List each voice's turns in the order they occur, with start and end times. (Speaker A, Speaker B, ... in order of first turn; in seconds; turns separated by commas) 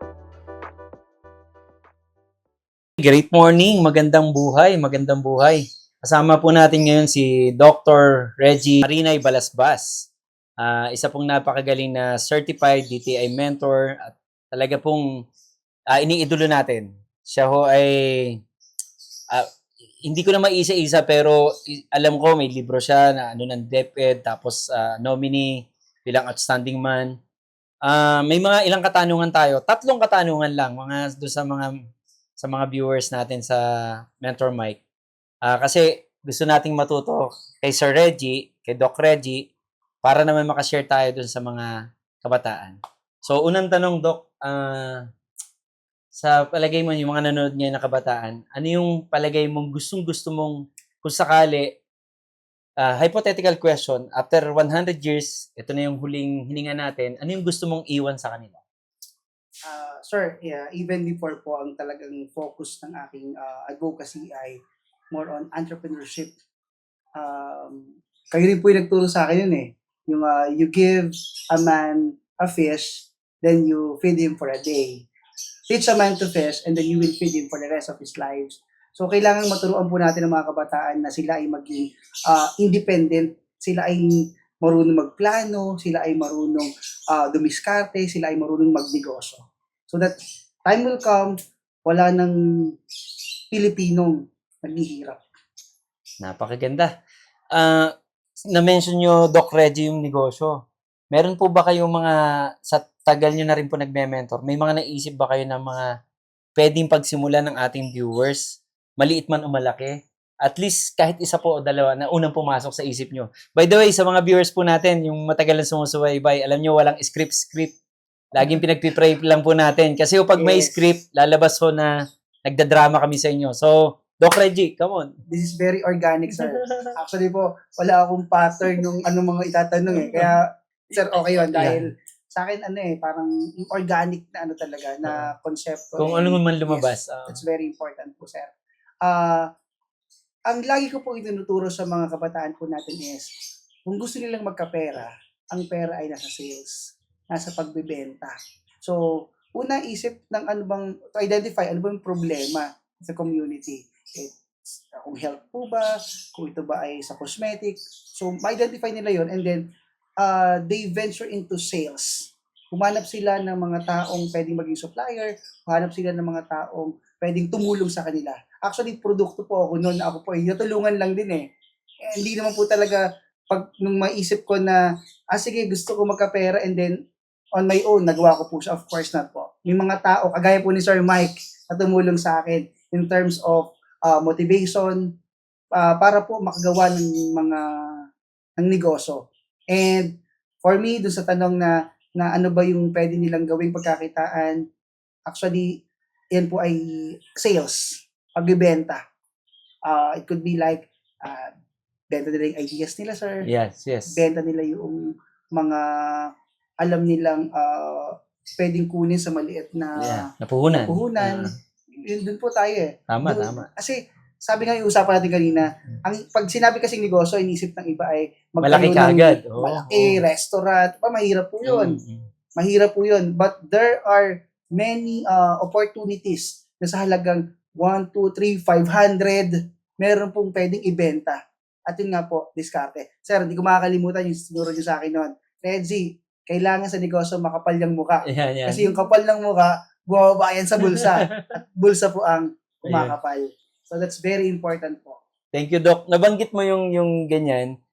Speaker A: 3.0-9.9, Speaker A: 10.6-15.0, Speaker A: 15.9-18.4, Speaker A: 20.1-27.1, Speaker A: 27.9-31.7, Speaker A: 32.4-33.6, Speaker A: 34.2-34.8, Speaker A: 35.5-39.4, Speaker A: 40.0-41.7, Speaker A: 42.2-45.0, Speaker A: 46.1-51.7, Speaker A: 52.8-58.6, Speaker B: 59.6-64.6, Speaker B: 65.1-66.3, Speaker B: 67.2-75.1, Speaker B: 75.7-84.1, Speaker B: 84.6-90.1, Speaker B: 90.7-91.3, Speaker B: 91.9-92.4, Speaker B: 93.5-95.2, Speaker A: 96.2-96.9, Speaker A: 97.5-97.9, Speaker A: 98.5-100.5, Speaker A: 101.1-102.2, Speaker A: 102.7-105.9, Speaker A: 106.6-108.4, Speaker A: 109.0-117.7, Speaker A: 118.4-121.9, Speaker B: 118.4-118.6, Speaker B: 120.4-120.7, Speaker A: 122.5-125.1, Speaker B: 125.3-138.5, Speaker A: 126.3-126.9, Speaker A: 129.9-130.3, Speaker A: 131.1-131.8, Speaker A: 136.0-137.4, Speaker B: 139.0-139.4, Speaker B: 140.5-143.3, Speaker B: 143.9-146.8, Speaker B: 147.3-149.0, Speaker B: 149.5-159.6, Speaker B: 160.2-171.4, Speaker B: 172.1-174.8, Speaker B: 175.3-176.9, Speaker B: 177.6-185.0, Speaker B: 185.8-187.6, Speaker B: 188.6-189.2, Speaker B: 189.7-190.1, Speaker B: 190.6-194.6, Speaker B: 195.3-195.8, Speaker B: 196.3-199.0, Speaker B: 199.9-201.5, Speaker B: 202.1-203.4, Speaker A: 203.5-204.2, Speaker B: 204.1-205.0, Speaker B: 205.6-206.3, Speaker B: 206.8-211.5, Speaker A: 210.0-211.5, Speaker B: 212.1-222.0, Speaker A: 213.1-213.7, Speaker A: 218.6-220.2, Speaker A: 221.6-222.2, Speaker B: 222.6-245.2, Speaker A: 238.3-238.9, Speaker A: 240.8-241.5, Speaker A: 242.8-243.1, Speaker A: 245.5-247.7